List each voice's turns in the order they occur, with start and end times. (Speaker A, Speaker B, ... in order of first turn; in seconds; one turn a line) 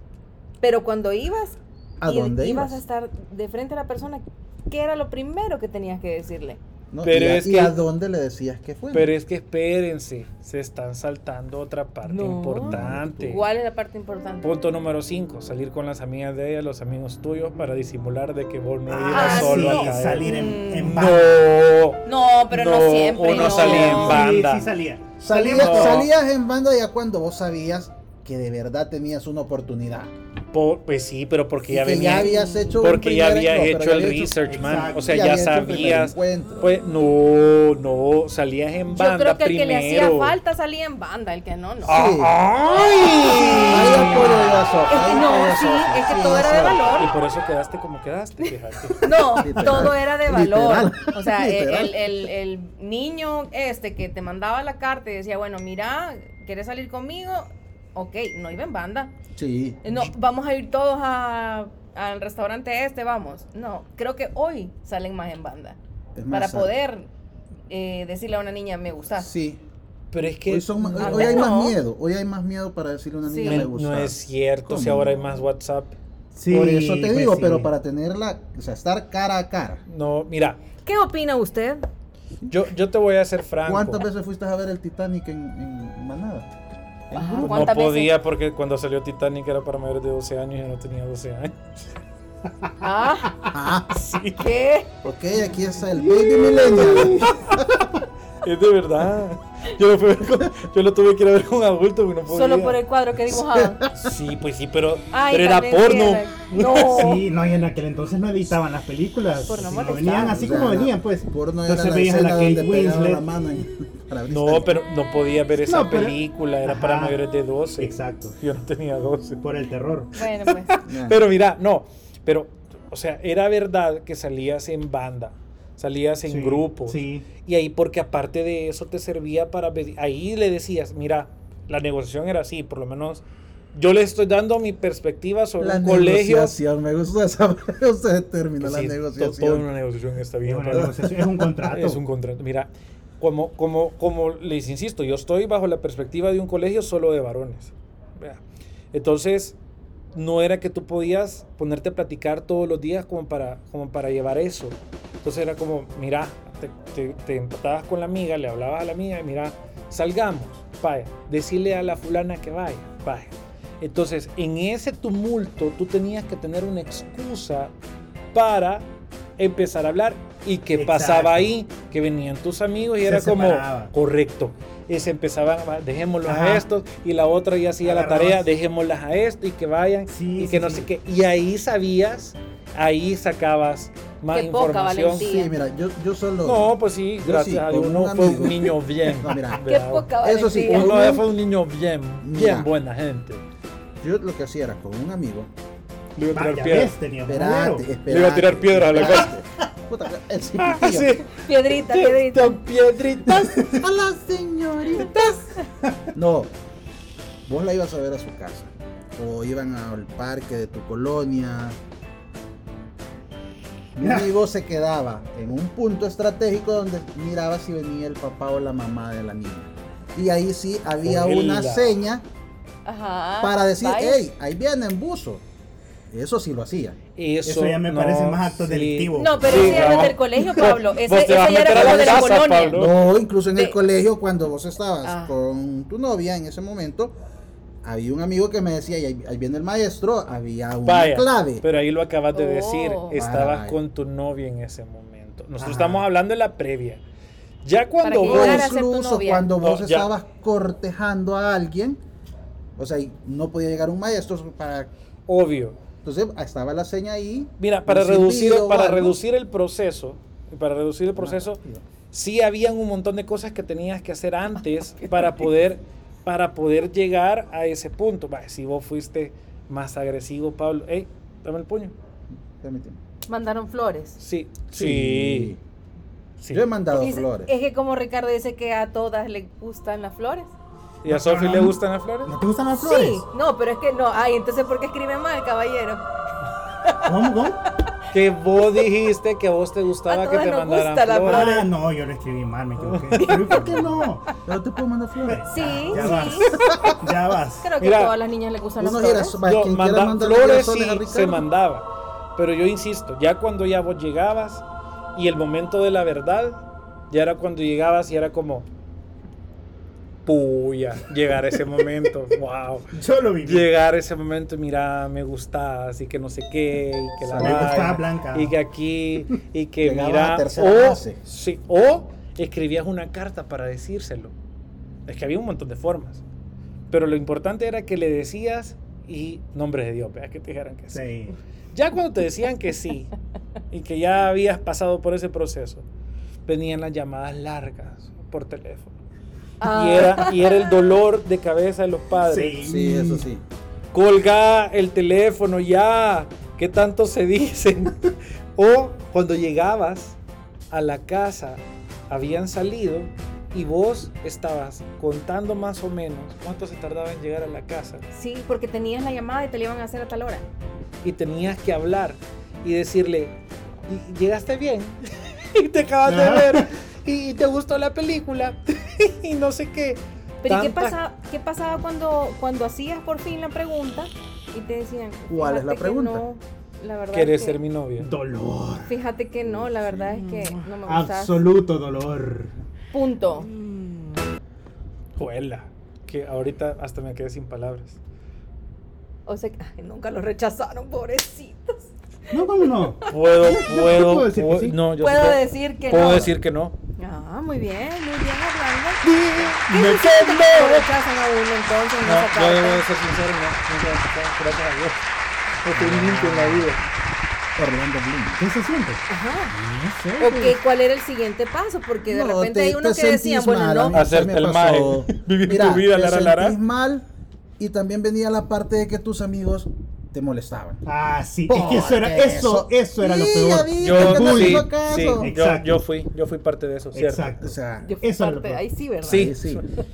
Speaker A: 0.6-6.6
Speaker B: 2.0-2.8
Speaker B: 6.9-9.1
Speaker C: 7.0-7.8
Speaker C: 8.9-13.4
Speaker A: 12.1-14.5
Speaker B: 12.6-13.4
Speaker C: 14.4-24.7
Speaker D: 18.9-21.4
Speaker A: 19.1-21.0
Speaker A: 22.0-24.2
Speaker B: 23.3-24.2
Speaker D: 23.6-26.1
Speaker B: 25.2-30.1
Speaker C: 25.4-26.1
Speaker C: 30.5-40.3
Speaker B: 31.7-36.7
Speaker A: 32.2-32.8
Speaker D: 34.5-35.3
Speaker A: 38.9-42.1
Speaker C: 41.8-44.7
Speaker B: 41.9-42.4
Speaker A: 42.7-47.1
Speaker B: 43.5-47.1
Speaker C: 46.9-49.4
Speaker A: 49.0-59.1
Speaker B: 49.4-52.1
Speaker B: 59.4-59.8
Speaker A: 59.8-65.8
Speaker B: 66.2-66.7
Speaker A: 66.3-67.1
Speaker A: 67.7-69.3
Speaker B: 69.2-69.6
Speaker C: 70.1-71.5
Speaker B: 70.5-75.5
Speaker A: 71.0-71.8
Speaker A: 73.2-73.7
Speaker C: 73.4-76.0
Speaker D: 76.3-77.7
Speaker B: 76.5-79.8
Speaker C: 79.9-80.6
Speaker A: 80.8-81.9
Speaker C: 82.5-84.0
Speaker B: 83.6-86.5
Speaker B: 87.1-87.7
Speaker A: 87.1-88.1
Speaker C: 87.4-91.9
Speaker A: 92.8-93.5
Speaker B: 93.5-93.9
Speaker C: 93.9-94.4
Speaker A: 94.3-94.9
Speaker B: 95.0-97.8
Speaker D: 96.9-97.2
Speaker C: 97.1-97.6
Speaker C: 98.4-102.8
Speaker A: 102.3-103.8
Speaker B: 103.3-104.1
Speaker C: 103.9-107.2
Speaker A: 105.1-107.2
Speaker D: 106.9-113.2
Speaker A: 109.4-110.5
Speaker B: 110.2-114.8
Speaker C: 114.3-119.4
Speaker D: 115.6-117.2
Speaker D: 117.8-118.4
Speaker D: 119.4-120.2
Speaker A: 120.1-120.8
Speaker C: 120.4-136.6
Speaker B: 120.8-121.2
Speaker D: 126.2-127.2
Speaker B: 135.6-139.7
Speaker C: 138.6-141.1
Speaker D: 140.4-142.0
Speaker B: 140.7-141.2
Speaker C: 141.6-149.6
Speaker C: 150.1-167.7
Speaker C: 168.3-168.8
Speaker C: 169.4-185.3
Speaker D: 170.7-171.5
Speaker D: 173.0-173.9
Speaker D: 176.2-176.7
Speaker D: 177.8-178.4
Speaker D: 180.1-180.9
Speaker A: 184.3-185.5
Speaker B: 185.1-189.6
Speaker C: 186.4-193.4
Speaker A: 189.7-191.2
Speaker B: 190.2-191.3
Speaker B: 192.2-192.7
Speaker B: 194.0-195.5
Speaker C: 196.2-196.9
Speaker D: 196.3-197.9
Speaker B: 197.2-201.2
Speaker C: 198.1-199.3
Speaker C: 200.6-203.8
Speaker A: 201.3-202.6
Speaker B: 203.3-205.4
Speaker A: 204.9-205.6
Speaker B: 206.1-206.5
Speaker B: 207.4-211.8
Speaker B: 213.9-222.2
Speaker D: 214.0-214.3
Speaker C: 221.0-222.0
Speaker A: 222.8-224.3
Speaker B: 223.4-225.4
Speaker B: 226.1-227.0
Speaker C: 227.1-232.9
Speaker D: 227.4-230.7
Speaker A: 229.1-233.0
Speaker B: 231.7-237.2
Speaker A: 233.5-233.8
Speaker A: 235.0-235.3
Speaker B: 237.8-241.6
Speaker C: 240.8-247.0
Speaker A: 242.3-243.1
Speaker B: 243.1-243.8
Speaker D: 245.6-246.0
Speaker C: 247.6-248.7
Speaker A: 248.0-249.5
Speaker B: 248.2-252.0
Speaker C: 249.6-250.1
Speaker B: 252.8-254.9
Speaker C: 255.3-255.8
Speaker B: 256.0-259.2
Speaker C: 257.6-271.9
Speaker B: 261.2-261.8
Speaker B: 272.6-273.0
Speaker A: 273.3-274.2
Speaker C: 274.2-275.5
Speaker B: 274.7-275.6
Speaker C: 276.4-276.7
Speaker B: 276.5-277.5
Speaker A: 276.9-280.5
Speaker C: 281.0-282.3
Speaker D: 281.1-283.2
Speaker A: 282.7-286.0
Speaker D: 287.0-287.6
Speaker C: 288.1-291.5
Speaker A: 290.1-291.7
Speaker D: 291.2-294.3
Speaker C: 292.8-293.6
Speaker A: 293.2-293.7
Speaker B: 294.4-297.0
Speaker D: 295.2-297.7
Speaker A: 295.5-296.9
Speaker A: 297.6-299.4
Speaker C: 297.8-298.1
Speaker B: 298.8-301.4
Speaker C: 299.4-308.7
Speaker C: 310.2-324.3
Speaker D: 312.9-313.7
Speaker B: 317.2-317.9
Speaker D: 317.4-318.6
Speaker B: 319.8-321.2
Speaker C: 325.1-326.2
Speaker C: 326.9-331.1
Speaker D: 330.9-331.3
Speaker C: 331.7-333.1
Speaker C: 333.7-335.9
Speaker C: 336.4-338.9
Speaker A: 339.6-340.7
Speaker C: 339.6-342.6
Speaker D: 342.2-343.3
Speaker B: 342.6-343.4
Speaker C: 343.9-350.2
Speaker C: 350.7-358.0
Speaker A: 358.1-360.4
Speaker C: 361.0-363.3
Speaker C: 363.9-371.0
Speaker D: 366.0-366.6
Speaker A: 370.4-377.6
Speaker B: 375.3-376.2
Speaker C: 377.1-378.1
Speaker D: 378.0-379.0
Speaker A: 378.9-381.4
Speaker D: 380.8-382.5
Speaker A: 382.9-383.5
Speaker C: 385.2-388.0
Speaker A: 389.2-391.9
Speaker D: 392.3-394.8
Speaker A: 392.6-393.1
Speaker C: 393.1-396.8
Speaker A: 395.0-396.3
Speaker A: 397.0-399.1
Speaker D: 399.1-400.2
Speaker C: 399.1-400.9
Speaker A: 399.7-402.8
Speaker C: 402.0-405.0
Speaker C: 405.6-406.8
Speaker D: 405.7-406.8
Speaker B: 407.6-408.4
Speaker D: 408.4-410.6
Speaker A: 409.1-409.5
Speaker A: 410.2-414.0
Speaker B: 412.0-417.0
Speaker C: 413.9-416.6
Speaker B: 417.6-420.8
Speaker D: 420.8-425.7
Speaker B: 421.5-425.3
Speaker C: 423.8-427.4
Speaker D: 426.9-428.6
Speaker B: 427.4-427.9
Speaker A: 427.8-429.4
Speaker B: 429.0-429.6
Speaker C: 429.0-429.6